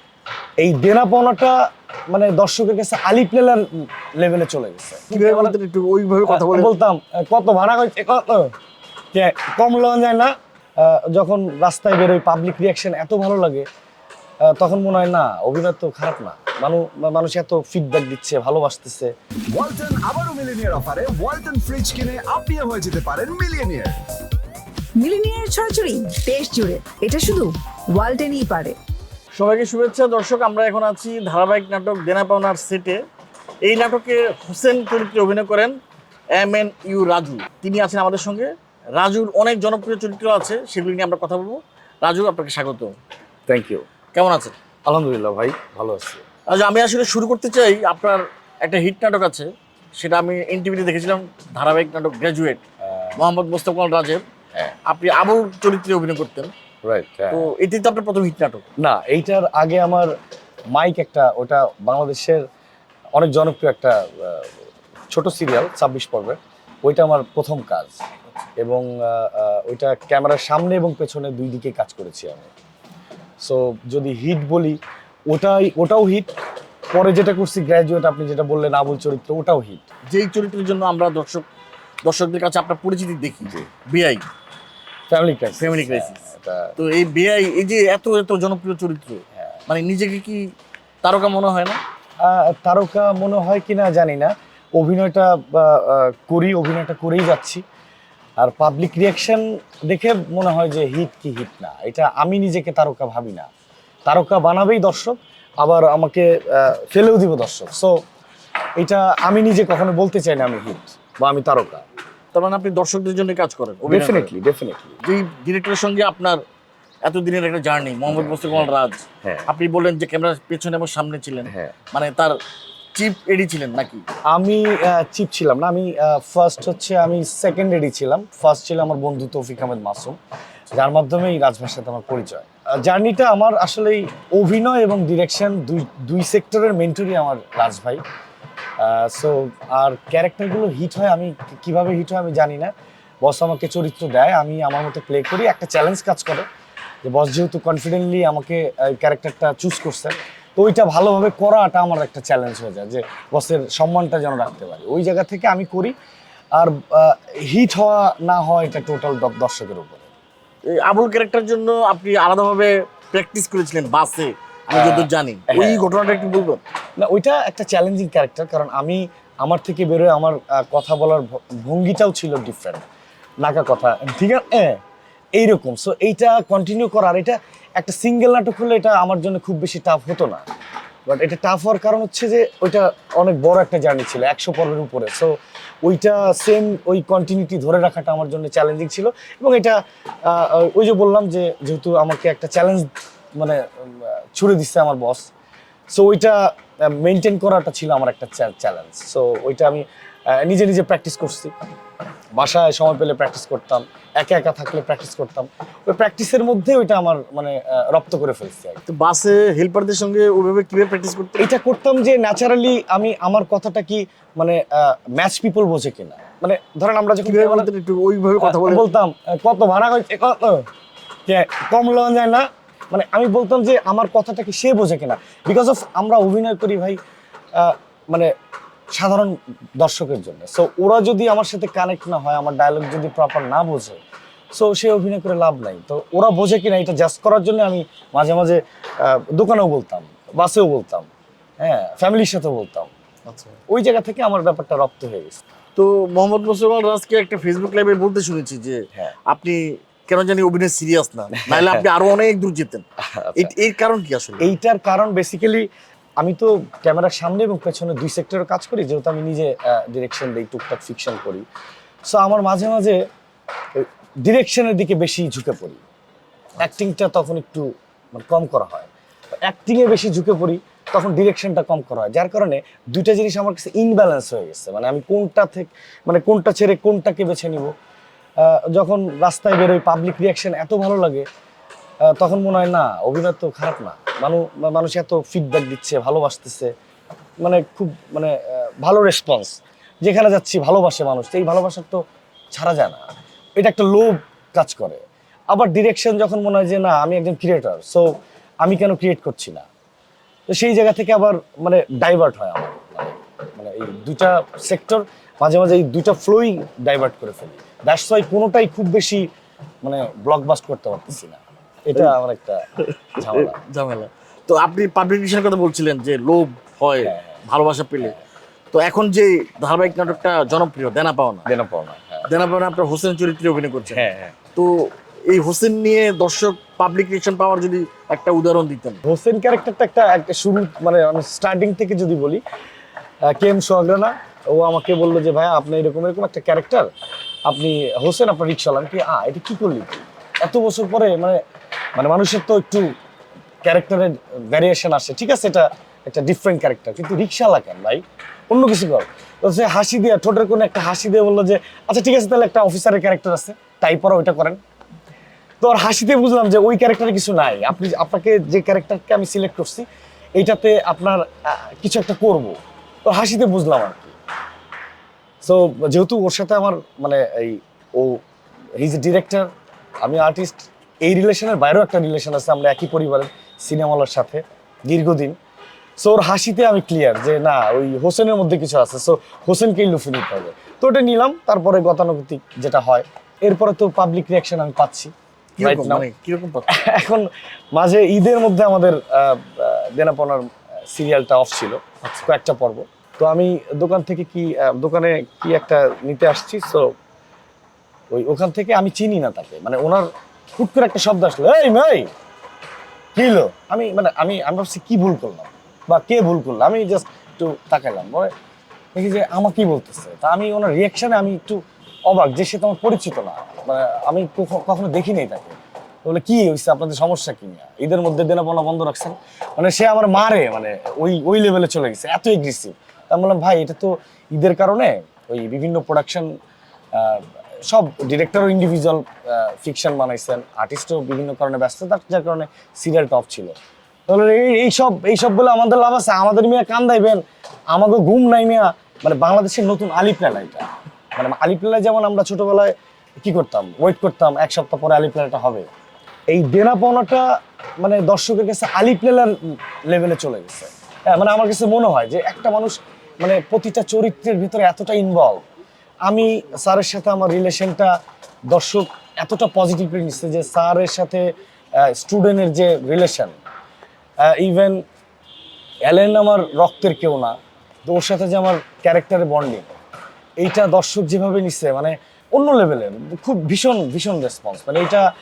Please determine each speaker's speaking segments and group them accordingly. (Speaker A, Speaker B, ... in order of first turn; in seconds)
Speaker A: 0.6-1.6, 2.1-5.5, 6.3-8.5, 9.1-13.7, 14.4-19.1, 43.5-43.9, 44.9-46.2, 52.9-53.2, 56.8-57.5, 58.8-60.1, 60.7-62.4, 63.1-64.6, 65.1-68.0, 68.6-72.5, 73.4-74.8, 75.3-76.3, 76.9-79.8, 85.1-86.7, 92.2-97.6, 98.4-103.5, 104.1-108.0, 108.8-111.8, 113.8-115.0, 118.1-118.7, 121.5-121.7, 124.3-130.2, 130.7-138.0, 138.8-142.7, 143.2-146.4, 147.0-155.9, 156.5-160.1, 164.7-165.9, 167.0-172.8, 173.4-174.8, 175.3-180.4, 181.1-195.2, 195.9-201.5, 202.3-208.8, 211.4-217.7, 218.4-220.7, 221.3-227.0, 227.5-228.3, 228.9-234.0, 234.5-241.1, 241.6-242.9, 243.7-245.4, 251.4-251.8, 253.0-253.5, 254.4-255.7, 256.2-261.4, 262.1-263.0, 263.7-265.8, 266.6-268.9, 269.4-277.7, 278.4-281.2, 282.1-286.7, 287.4-292.0, 292.5-298.1, 298.6-299.6, 300.5-309.2, 309.8-313.6, 317.0-317.4, 321.4-322.3, 323.9-324.4, 329.0-332.4, 333.3-336.9, 337.4-341.4, 341.9-342.9, 343.6-354.6, 355.6-359.9, 360.4-364.1, 365.4-368.2, 368.8-369.5, 370.0-375.4, 376.0-386.1, 386.7-396.9, 398.1-402.1, 403.1-408.3, 408.9-426.3, 426.9-433.5, 434.1-445.7, 446.3-447.2, 447.8-455.4, 456.0-457.9, 458.5-461.3, 461.8-463.4, 464.2-464.8, 465.9-469.7, 470.4-475.1
Speaker B: 5.1-6.7, 29.3-33.0, 33.6-35.7, 36.3-42.9, 44.1-44.5, 46.5-52.6, 53.1-54.2, 54.8-56.5, 57.3-58.6, 80.1-81.4, 82.0-84.2, 85.5-86.2, 86.8-90.5, 91.0-91.8, 112.3-114.3, 115.0-116.4, 117.0-122.3, 122.9-124.0, 160.7-166.6, 208.9-211.5, 217.2-218.8, 243.3-243.6, 245.8-252.8, 253.3-254.5, 313.2-318.2, 318.7-321.5, 322.2-329.0, 385.6-386.9
Speaker C: 19.5-23.9
Speaker D: 25.0-28.8